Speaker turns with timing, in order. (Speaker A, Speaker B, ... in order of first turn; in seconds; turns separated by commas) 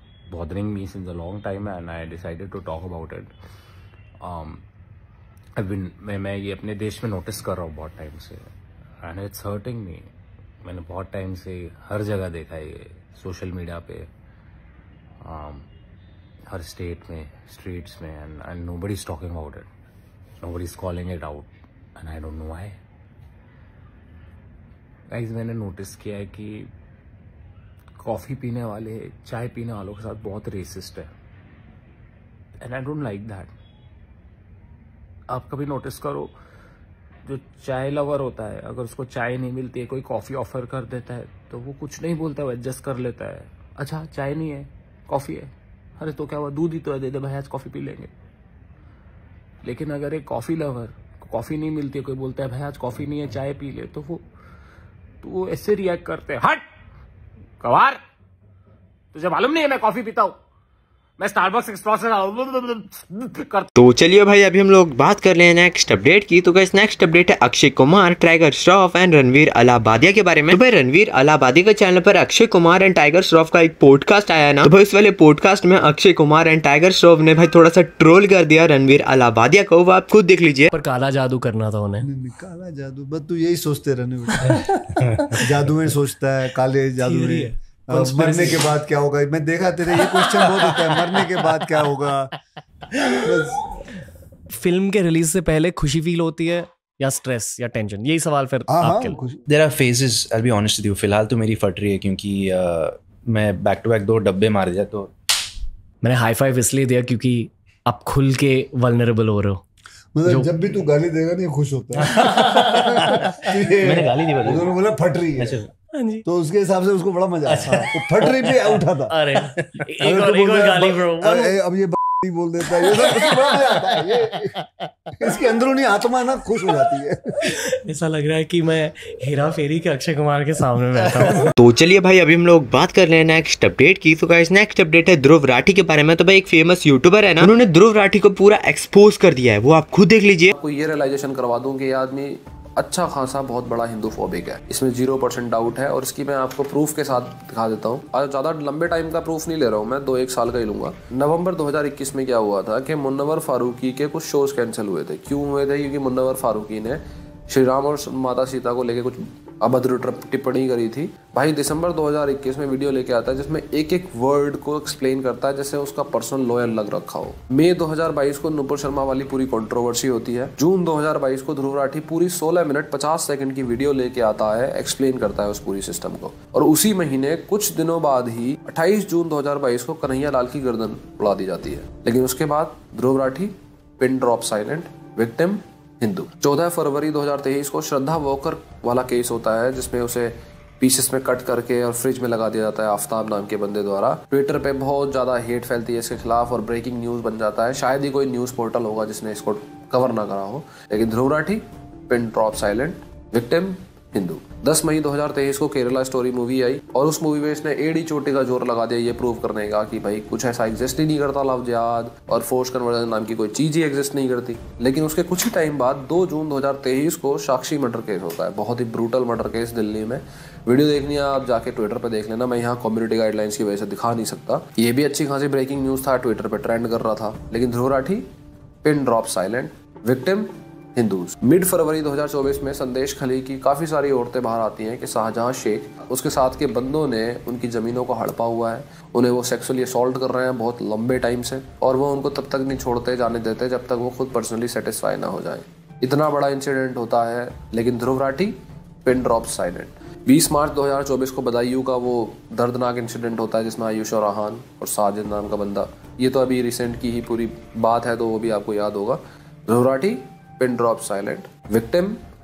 Speaker A: 0.3-3.3, Speaker A: 4.2-4.6, Speaker A: 5.6-8.4, Speaker A: 9.0-10.1, Speaker A: 10.6-14.1, Speaker A: 15.2-15.7, Speaker A: 16.5-19.7, Speaker A: 20.4-22.8, Speaker A: 25.1-26.7, Speaker A: 28.0-31.1, Speaker A: 32.6-33.5, Speaker A: 35.3-36.3, Speaker A: 37.3-48.1, Speaker A: 49.6-54.2, Speaker A: 55.2-56.6, Speaker A: 57.6-58.0, Speaker A: 59.1-60.4, Speaker A: 61.2-63.7, Speaker B: 63.8-80.7, Speaker C: 80.7-82.1, Speaker D: 82.0-84.7, Speaker D: 85.3-92.3, Speaker C: 87.0-88.7, Speaker C: 90.1-91.0, Speaker D: 93.2-93.7, Speaker C: 94.6-99.2, Speaker D: 98.7-99.4, Speaker E: 99.5-105.1, Speaker C: 106.0-109.6, Speaker D: 110.2-115.7, Speaker C: 110.3-110.5, Speaker E: 112.2-113.2, Speaker E: 113.8-114.8, Speaker E: 115.4-115.7, Speaker C: 116.0-116.2, Speaker D: 116.2-119.2, Speaker C: 119.1-121.6, Speaker D: 120.0-124.5, Speaker C: 122.8-124.1, Speaker D: 125.2-127.3, Speaker C: 127.5-131.5, Speaker B: 131.6-140.5, Speaker F: 140.5-228.2, Speaker F: 228.8-262.2